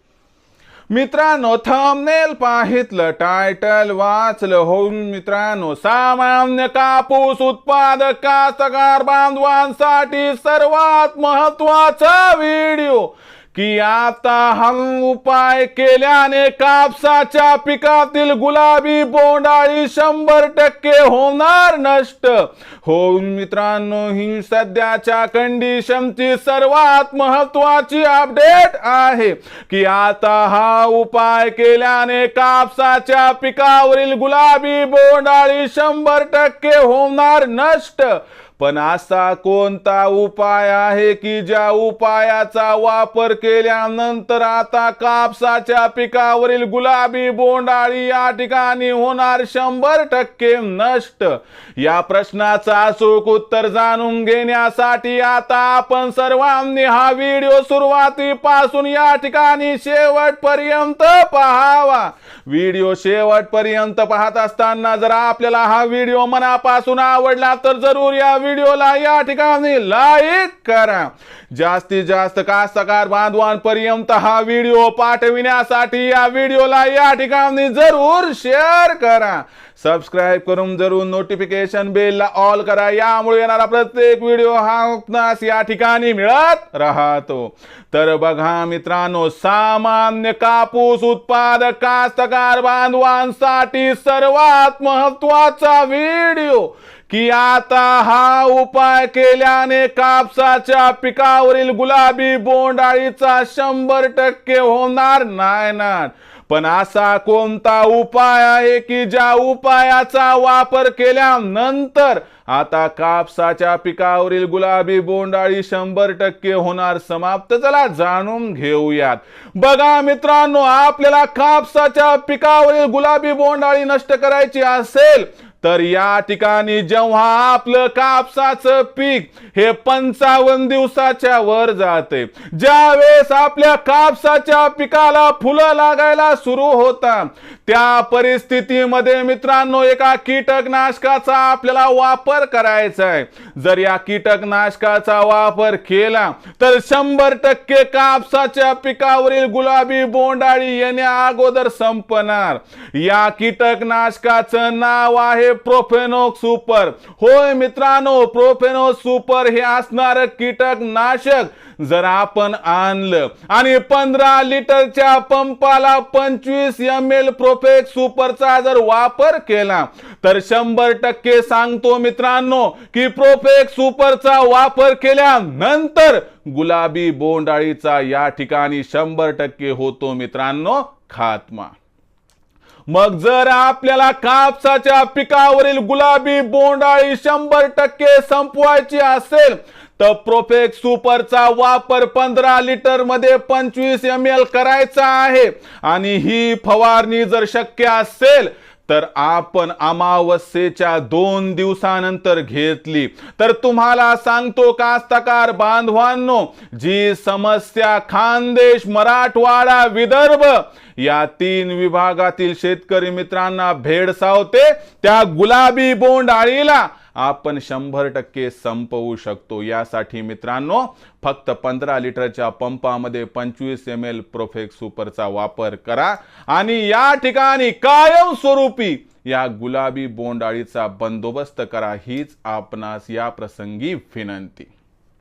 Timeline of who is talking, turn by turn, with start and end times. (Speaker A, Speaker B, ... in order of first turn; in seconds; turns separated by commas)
Speaker A: 0.9-181.7, Speaker A: 182.9-234.7